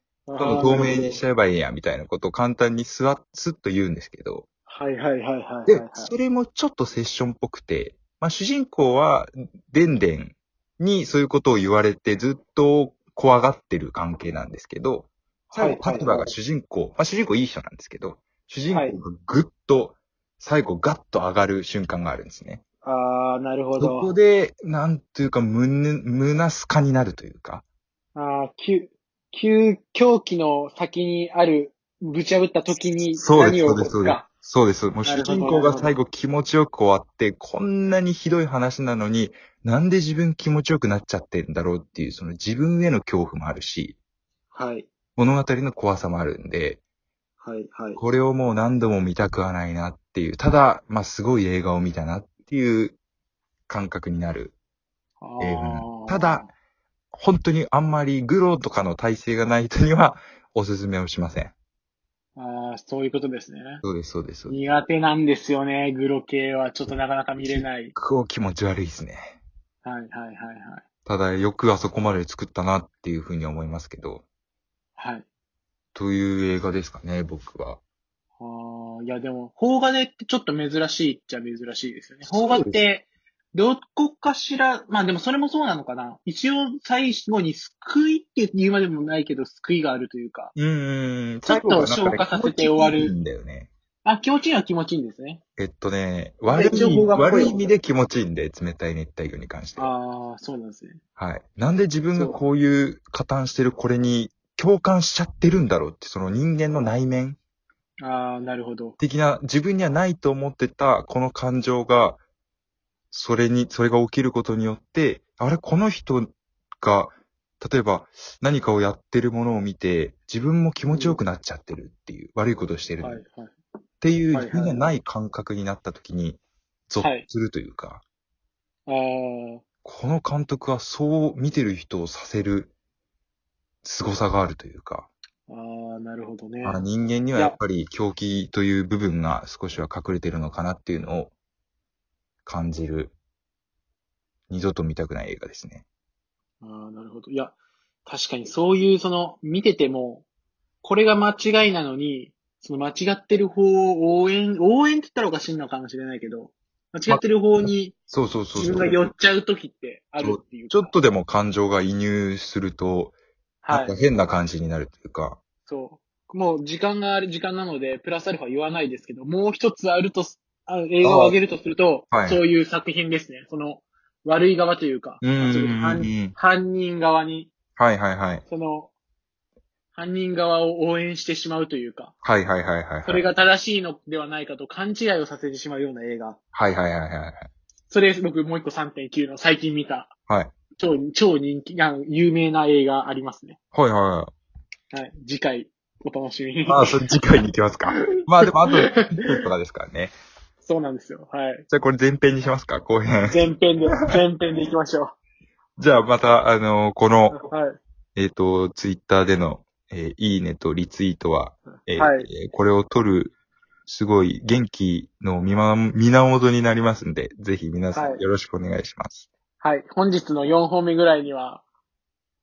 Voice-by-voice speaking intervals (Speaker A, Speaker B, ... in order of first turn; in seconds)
Speaker A: 0.3-1.2, 4.7-6.1, 15.5-16.3, 18.7-19.0, 22.8-24.1, 28.1-34.2, 35.0-35.9, 44.5-44.9, 47.4-48.0, 55.2-56.5, 62.4-63.8, 64.5-67.9, 69.8-70.9, 75.0-75.2, 78.4-90.5, 91.4-93.1, 94.0-95.4, 96.5-97.7, 99.8-101.0, 108.0-109.0, 120.9-121.2, 123.0-123.5, 124.3-124.8, 127.0-127.2, 128.9-129.7, 135.5-137.6, 146.6-147.5, 148.1-150.2, 150.8-157.9, 158.5-160.9, 163.6-163.9, 165.7-177.5, 178.5-178.9, 179.9-182.1, 183.0-186.4, 187.9-190.1, 190.8-193.6, 194.9-197.1, 197.9-199.4, 200.6-201.6, 203.3-205.1, 207.3-207.8, 211.9-212.3, 217.9-218.2, 219.6-221.6
Speaker B: 0.4-4.5, 5.7-22.6, 23.8-27.6, 33.1-44.0, 45.1-46.8, 48.0-53.0, 53.7-54.5, 55.4-56.5, 57.1-61.5, 63.8-64.6, 67.4-69.4, 71.0-74.2, 75.9-77.8, 82.3-82.8, 90.5-93.7, 95.6-99.9, 101.2-107.4, 109.0-112.2, 113.1-123.2, 124.0-128.0, 129.8-132.7, 133.8-135.1, 136.6-141.3, 142.4-143.1, 144.5-145.8, 157.1-159.1, 160.2-163.1, 163.7-165.4, 171.0-171.4, 172.1-172.4, 175.2-176.3, 177.8-178.4, 182.2-183.2, 186.5-187.5, 190.3-190.5, 193.7-194.3, 196.7-200.1, 201.7-204.1, 205.8-207.4, 208.1-213.3, 213.8-219.3